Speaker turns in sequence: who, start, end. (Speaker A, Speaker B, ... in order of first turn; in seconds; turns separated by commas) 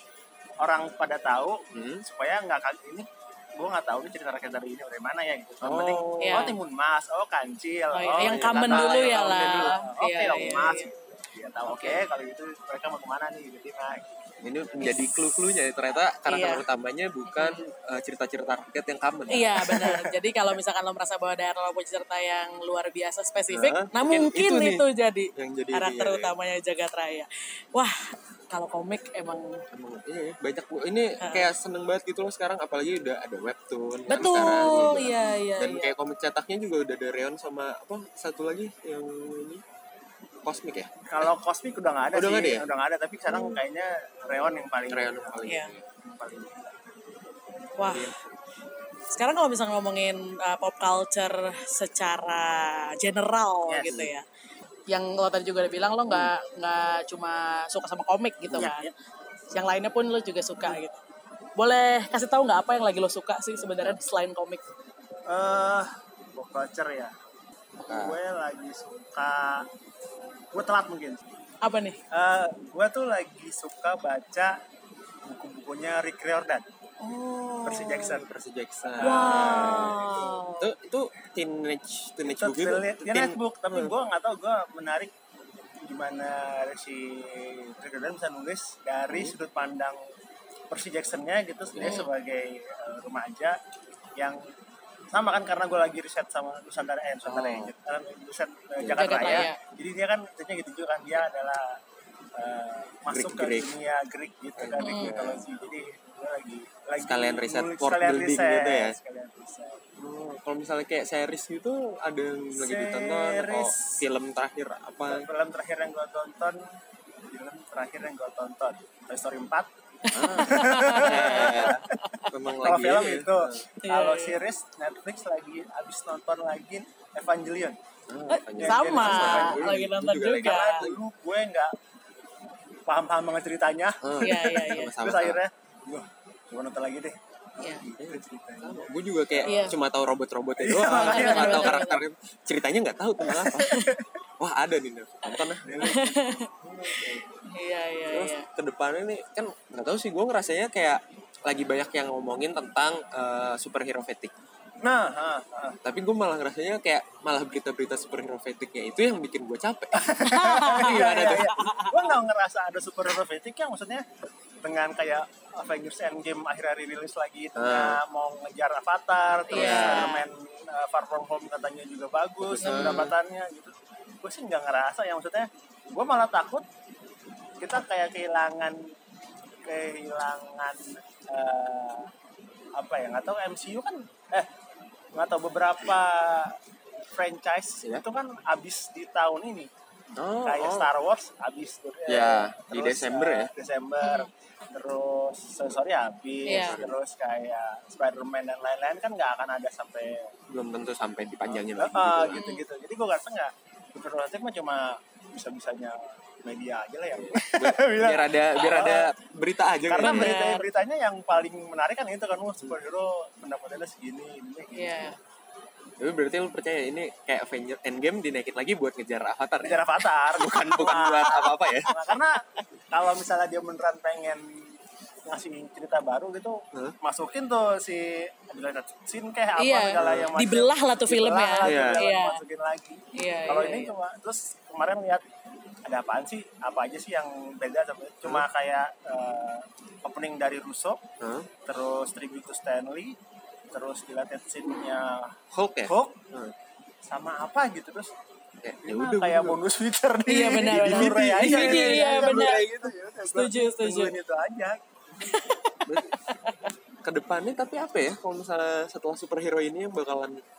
Speaker A: 0.6-3.1, Speaker B: 1.7-2.0, Speaker A: 3.6-14.1, Speaker B: 5.6-6.5, Speaker C: 6.2-6.5, Speaker C: 7.9-10.9, Speaker B: 8.2-9.8, Speaker C: 11.7-12.0, Speaker B: 14.4-20.0, Speaker C: 14.8-15.1, Speaker C: 16.3-16.6, Speaker C: 17.3-17.6, Speaker C: 19.3-29.6, Speaker B: 23.5-24.8, Speaker B: 25.4-26.3, Speaker B: 29.7-39.6, Speaker C: 31.2-31.5, Speaker C: 34.1-35.9, Speaker A: 34.2-35.1, Speaker B: 40.5-41.3, Speaker A: 41.1-45.5, Speaker B: 42.1-42.7, Speaker B: 44.9-45.9, Speaker C: 45.5-45.7, Speaker A: 46.0-46.7, Speaker C: 47.8-48.1, Speaker B: 47.8-48.2, Speaker C: 49.1-54.2, Speaker A: 53.7-54.1, Speaker C: 54.9-58.9, Speaker A: 58.5-58.9, Speaker C: 59.5-61.0, Speaker C: 61.6-64.6, Speaker A: 65.3-67.1, Speaker B: 67.8-68.2, Speaker A: 67.9-69.7, Speaker A: 70.5-71.2, Speaker C: 71.6-72.0, Speaker A: 72.1-74.6, Speaker A: 75.2-76.7, Speaker C: 77.0-78.2, Speaker A: 77.6-78.3, Speaker B: 78.1-80.0, Speaker A: 78.9-80.4, Speaker C: 79.0-80.7, Speaker B: 80.6-83.9, Speaker A: 82.2-85.1, Speaker A: 85.8-90.0, Speaker B: 89.1-89.4, Speaker A: 90.7-93.6, Speaker B: 91.7-92.0, Speaker C: 91.8-92.1, Speaker A: 95.1-101.8, Speaker B: 97.2-97.7, Speaker B: 98.8-99.5, Speaker C: 99.0-99.6, Speaker A: 102.4-109.8, Speaker B: 103.1-103.7, Speaker B: 104.6-105.7, Speaker C: 104.8-105.1, Speaker B: 107.0-109.0, Speaker B: 110.0-115.3, Speaker A: 112.5-114.0, Speaker A: 115.1-116.7, Speaker A: 117.3-119.7, Speaker C: 120.1-121.8, Speaker B: 120.1-123.6, Speaker A: 120.2-122.0, Speaker A: 122.6-127.8, Speaker C: 123.8-124.4, Speaker B: 128.1-131.0, Speaker C: 128.3-130.9, Speaker A: 128.6-129.8, Speaker A: 130.3-131.7, Speaker A: 132.9-139.7, Speaker B: 134.0-135.4, Speaker C: 134.2-134.9, Speaker B: 138.0-143.8, Speaker C: 139.5-139.8, Speaker A: 140.6-141.8, Speaker C: 140.9-142.0, Speaker A: 143.3-144.0, Speaker C: 143.6-143.9, Speaker B: 144.4-146.0, Speaker A: 145.7-147.2, Speaker C: 145.8-146.5, Speaker B: 146.6-147.2, Speaker C: 147.5-148.5, Speaker B: 148.1-154.3, Speaker A: 154.8-155.8, Speaker B: 155.8-161.5, Speaker A: 159.9-164.0, Speaker C: 160.3-162.0, Speaker A: 164.6-176.7, Speaker B: 167.6-168.0, Speaker C: 169.5-170.2, Speaker B: 169.5-170.1, Speaker B: 172.4-173.1, Speaker C: 172.6-173.1, Speaker A: 177.6-178.8, Speaker A: 179.7-182.1, Speaker A: 182.8-184.5, Speaker A: 185.2-186.6, Speaker A: 187.1-189.7, Speaker B: 190.2-190.9, Speaker A: 190.4-200.3, Speaker B: 192.1-193.5, Speaker C: 194.0-194.3, Speaker C: 196.5-196.8, Speaker B: 196.5-196.9, Speaker B: 200.5-202.4, Speaker A: 201.8-209.1, Speaker C: 202.3-202.6, Speaker B: 207.2-210.4, Speaker A: 209.9-215.2, Speaker C: 210.0-210.7, Speaker C: 214.7-215.2, Speaker B: 216.0-221.9, Speaker A: 219.6-224.7, Speaker A: 225.3-235.2, Speaker C: 229.6-232.4, Speaker B: 230.0-230.3, Speaker B: 231.6-232.0, Speaker C: 233.1-233.9, Speaker A: 235.9-241.0, Speaker B: 241.2-241.5, Speaker A: 241.7-243.2, Speaker A: 243.7-245.3, Speaker B: 245.5-246.5, Speaker A: 245.8-246.2, Speaker A: 247.1-248.1, Speaker B: 248.6-249.6, Speaker A: 248.8-254.8, Speaker C: 250.3-254.2, Speaker B: 250.6-252.5, Speaker C: 255.3-256.6, Speaker B: 255.9-256.1, Speaker B: 257.1-260.4